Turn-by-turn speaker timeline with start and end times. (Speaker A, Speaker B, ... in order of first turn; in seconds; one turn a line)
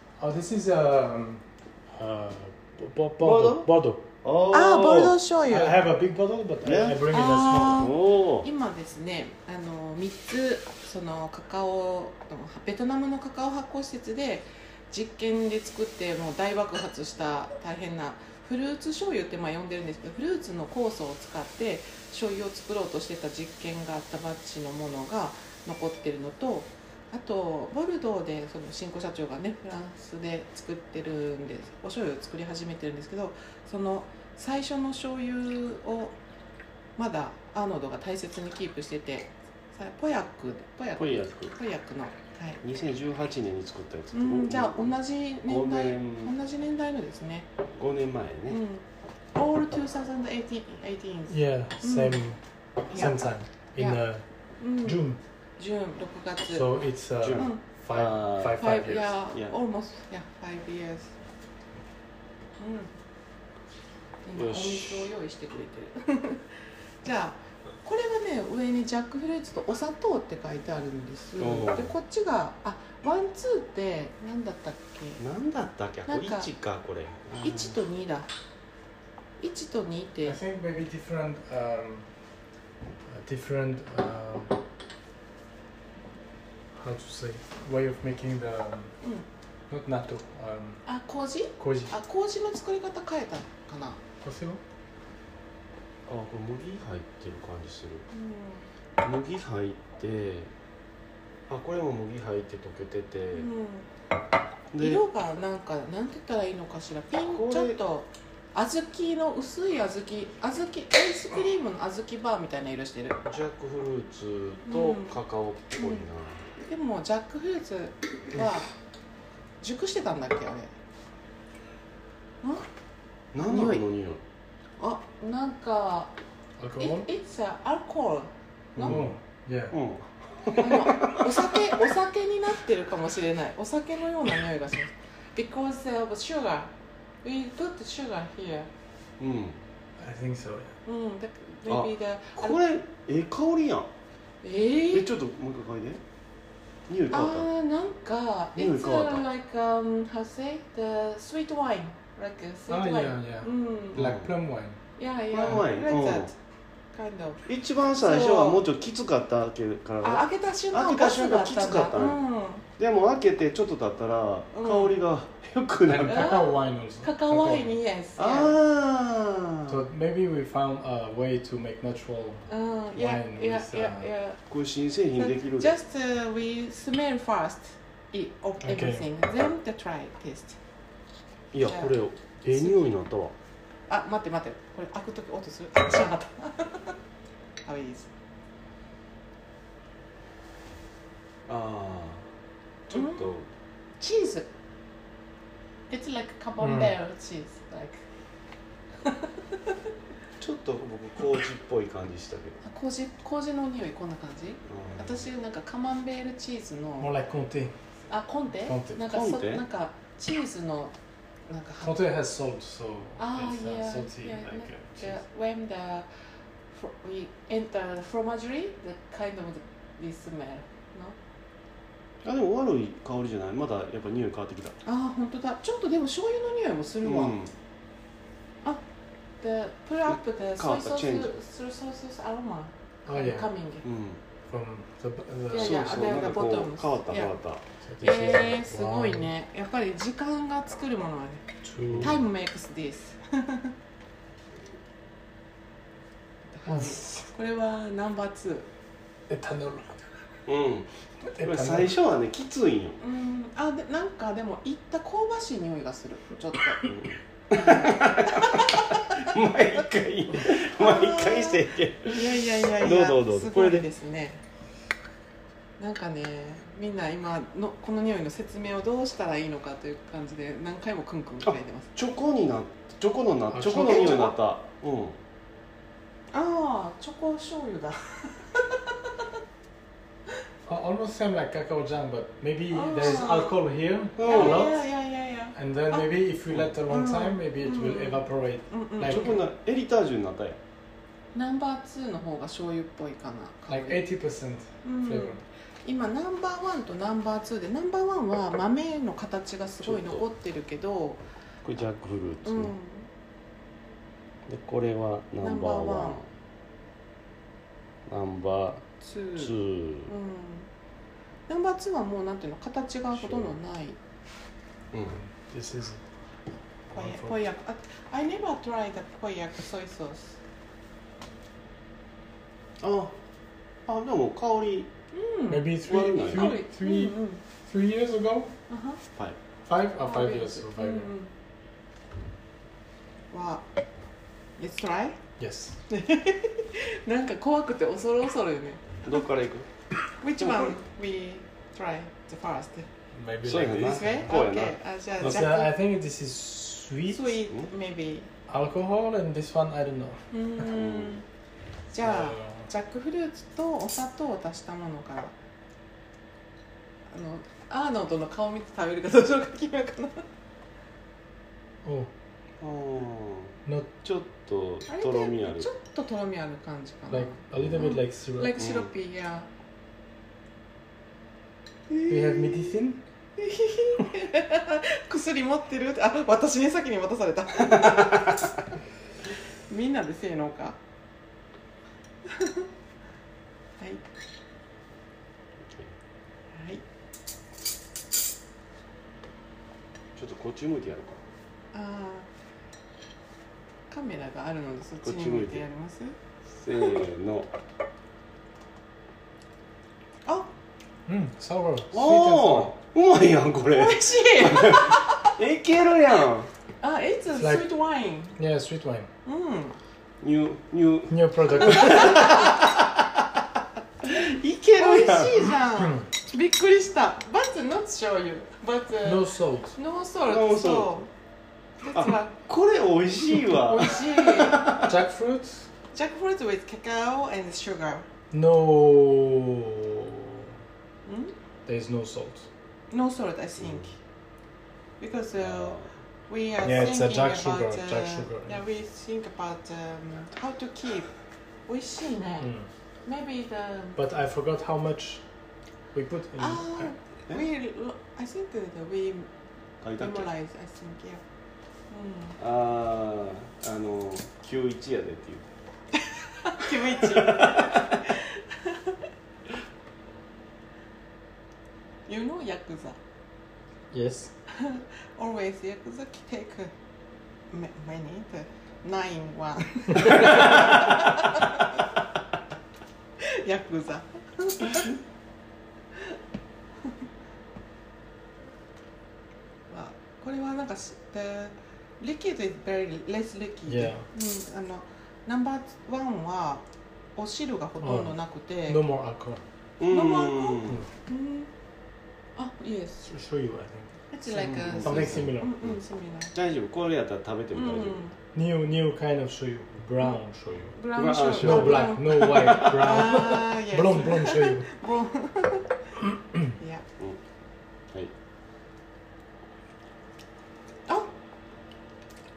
Speaker A: 0.2-4.1
Speaker B: 3.2-3.7
Speaker B: 4.2-5.2
Speaker C: 4.5-5.8
Speaker A: 5.5-7.8
Speaker B: 6.6-8.5
Speaker C: 7.1-36.2
Speaker C: 37.0-42.6
Speaker B: 41.0-41.5
Speaker B: 42.6-46.3
Speaker C: 44.1-47.5
Speaker B: 47.7-48.6
Speaker C: 48.5-52.2
Speaker A: 51.3-54.2
Speaker C: 52.9-54.0
Speaker C: 54.6-55.0
Speaker A: 54.8-55.2
Speaker C: 55.6-56.6
Speaker A: 56.5-59.1
Speaker B: 57.2-58.6
Speaker C: 57.4-57.6
Speaker C: 58.6-61.1
Speaker C: 62.6-62.9
Speaker C: 64.2-66.4
Speaker B: 64.3-65.1
Speaker C: 67.0-75.2
Speaker B: 71.4-71.9
Speaker B: 75.2-77.8
Speaker C: 76.0-76.5
Speaker C: 77.4-78.3
Speaker C: 79.4-80.4
Speaker A: 80.2-82.1
Speaker A: 83.1-84.6
Speaker A: 86.7-88.9
Speaker A: 89.7-90.8
Speaker C: 90.8-94.0
Speaker A: 91.6-91.9
Speaker A: 94.2-94.6
Speaker B: 96.1-98.0
Speaker C: 98.1-98.7
Speaker B: 99.0-100.5
Speaker B: 101.5-103.5
Speaker C: 103.3-103.9
Speaker B: 104.7-105.0
Speaker C: 104.8-113.2
Speaker B: 107.2-107.8
Speaker B: 113.2-116.5
Speaker C: 114.7-115.2
Speaker C: 115.8-116.0
Speaker C: 116.5-118.7
Speaker C: 119.6-120.7
Speaker B: 123.3-124.2
Speaker C: 123.4-123.8
Speaker C: 124.8-126.1
Speaker A: 126.6-127.0
Speaker C: 126.8-129.0
Speaker B: 128.8-129.1
Speaker A: 128.8-129.8
Speaker B: 129.7-131.5
Speaker C: 130.6-138.7
Speaker B: 139.2-139.6
Speaker A: 140.0-140.7
Speaker C: 140.8-142.6
Speaker B: 141.7-143.9
Speaker C: 144.4-145.1
Speaker B: 144.9-146.0
Speaker B: 146.9-147.5
Speaker C: 147.1-154.0
Speaker B: 148.6-149.2
Speaker A: 152.7-154.8
Speaker B: 153.9-154.3
Speaker C: 155.0-156.3
Speaker B: 155.3-156.3
Speaker C: 156.9-157.4
Speaker B: 157.4-162.2
Speaker C: 158.0-158.6
Speaker C: 160.0-162.6
Speaker B: 162.8-166.4
Speaker C: 164.5-164.9
Speaker A: 165.9-167.8
Speaker C: 166.1-168.6
Speaker B: 168.2-169.8
Speaker A: 169.7-174.1
Speaker C: 172.5-174.4
Speaker B: 174.5-175.7
Speaker C: 175.2-180.6
Speaker A: 178.6-179.1
Speaker B: 181.5-183.3
Speaker C: 181.6-182.0
Speaker C: 183.9-186.9
Speaker C: 187.6-188.1
Speaker B: 191.4-192.3
Speaker B: 192.9-193.5
Speaker C: 192.9-193.3
Speaker C: 194.0-194.5
Speaker C: 195.9-198.0
Speaker A: 196.6-196.9
Speaker C: 199.0-199.3
Speaker B: 200.4-202.6
Speaker C: 202.6-207.1
Speaker B: 204.7-205.2
Speaker A: 207.0-207.8
Speaker C: 208.1-210.9
Speaker A: 208.7-209.0
Speaker B: 209.1-209.6
Speaker C: 211.5-212.0
Speaker A: 211.8-215.2
Speaker C: 213.2-216.1
Speaker C: 216.7-221.2
Speaker B: 222.2-224.8
Speaker C: 224.8-227.4
Speaker B: 227.0-227.5
Speaker C: 229.4-233.9
Speaker B: 230.1-231.3
Speaker A: 233.1-233.5
Speaker B: 233.8-234.2
Speaker A: 234.5-235.9
Speaker C: 235.5-237.3
Speaker B: 235.5-237.6
Speaker A: 237.8-239.3
Speaker C: 238.0-243.7
Speaker A: 241.6-242.2
Speaker B: 241.9-242.2
Speaker C: 246.5-248.7
Speaker A: 246.7-247.2
Speaker A: 249.3-250.1
Speaker B: 250.5-253.0
Speaker A: 251.3-251.9
Speaker C: 253.0-256.8
Speaker B: 256.9-263.9
Speaker C: 257.5-259.3
Speaker C: 260.5-264.4
Speaker C: 265.8-271.9
Speaker B: 271.9-275.2
Speaker A: 273.5-274.2
Speaker C: 273.8-274.3
Speaker C: 276.3-279.0
Speaker A: 280.6-284.8
Speaker C: 282.7-283.6
Speaker B: 284.2-284.7
Speaker C: 284.2-286.1
Speaker A: 285.5-289.3
Speaker C: 286.9-289.4
Speaker B: 289.0-290.6
Speaker C: 291.3-294.0
Speaker A: 293.7-295.4
Speaker C: 294.8-301.2
Speaker B: 299.8-300.2
Speaker B: 301.6-302.7
Speaker C: 302.4-303.1
Speaker B: 304.4-306.3
Speaker C: 305.4-306.2
Speaker B: 308.1-308.9
Speaker C: 309.0-310.7
Speaker B: 309.4-310.1
Speaker C: 311.5-314.0
Speaker B: 313.2-313.5
Speaker B: 314.9-315.2
Speaker A: 315.1-316.0
Speaker A: 316.9-317.4
Speaker C: 316.9-320.4
Speaker B: 322.8-323.2
Speaker B: 323.9-324.9
Speaker C: 325.1-327.4
Speaker A: 325.5-328.5
Speaker B: 325.8-326.6
Speaker C: 328.7-329.0
Speaker A: 329.7-331.1
Speaker C: 330.0-331.3
Speaker C: 333.3-333.6
Speaker C: 334.6-335.2
Speaker A: 335.4-335.8
Speaker C: 335.9-339.0
Speaker B: 339.0-339.7
Speaker C: 340.2-342.9
Speaker B: 340.4-340.7
Speaker A: 343.1-344.2
Speaker B: 343.4-345.4
Speaker C: 343.7-345.7
Speaker A: 345.2-347.4
Speaker C: 347.1-348.3
Speaker A: 348.5-350.2
Speaker C: 350.3-351.2
Speaker B: 350.6-351.2
Speaker C: 351.9-355.3
Speaker A: 352.0-352.7
Speaker C: 357.1-360.2
Speaker A: 361.8-362.1
Speaker B: 362.6-365.7
Speaker A: 363.6-363.9
Speaker C: 364.9-369.5
Speaker A: 367.1-368.5
Speaker B: 367.6-367.9
Speaker B: 368.6-368.9
Speaker C: 371.9-372.8
Speaker A: 372.1-373.0
Speaker C: 373.4-378.5
Speaker B: 377.9-378.3
Speaker C: 379.7-380.8
Speaker C: 382.2-382.7
Speaker C: 383.8-384.0
Speaker B: 385.6-385.9
Speaker C: 386.5-386.8
Speaker B: 390.1-391.2
Speaker C: 391.7-392.3
Speaker C: 393.9-396.1
Speaker B: 395.0-395.6
Speaker B: 396.6-397.5
Speaker A: 401.1-402.7
Speaker B: 401.9-406.5
Speaker C: 403.7-405.3
Speaker C: 406.8-408.4
Speaker A: 407.4-407.7
Speaker A: 408.4-409.1
Speaker C: 409.2-409.8
Speaker B: 410.2-413.2
Speaker A: 411.1-412.5
Speaker C: 411.8-412.4
Speaker B: 414.0-415.5
Speaker C: 414.8-421.1
Speaker A: 419.0-419.7
Speaker B: 420.3-420.9
Speaker C: 421.8-422.4
Speaker B: 421.9-424.9
Speaker C: 423.7-424.7
Speaker A: 424.5-425.7
Speaker C: 425.9-428.1
Speaker A: 428.3-430.5
Speaker C: 431.0-431.3
Speaker A: 431.6-432.5
Speaker C: 432.9-434.0
Speaker B: 433.6-433.9
Speaker C: 435.0-441.1
Speaker B: 435.4-435.9
Speaker A: 436.6-438.6
Speaker C: 441.7-442.5
Speaker A: 442.4-442.7
Speaker C: 443.0-444.0
Speaker A: 443.9-445.2
Speaker A: 445.9-446.9
Speaker C: 446.4-449.3
Speaker B: 449.8-450.3
Speaker C: 450.0-451.2
Speaker C: 451.9-452.4
Speaker B: 452.4-455.4
Speaker C: 456.3-459.0
Speaker B: 457.0-457.8
Speaker C: 462.1-463.0
Speaker A: 463.9-464.3
Speaker C: 464.5-466.7
Speaker C: 467.5-471.7
Speaker C: 473.2-474.9
Speaker C: 479.7-486.6
Speaker A: 483.7-484.1
Speaker C: 487.1-488.8
Speaker A: 487.8-489.4
Speaker B: 489.8-490.9
Speaker C: 489.8-491.5
Speaker C: 492.4-493.1
Speaker A: 493.0-494.0
Speaker C: 494.1-496.3
Speaker B: 494.3-495.8
Speaker A: 494.7-495.6
Speaker B: 496.3-498.1
Speaker C: 497.5-498.1
Speaker A: 498.3-504.7
Speaker C: 500.7-505.8
Speaker B: 500.9-503.0
Speaker C: 506.6-506.8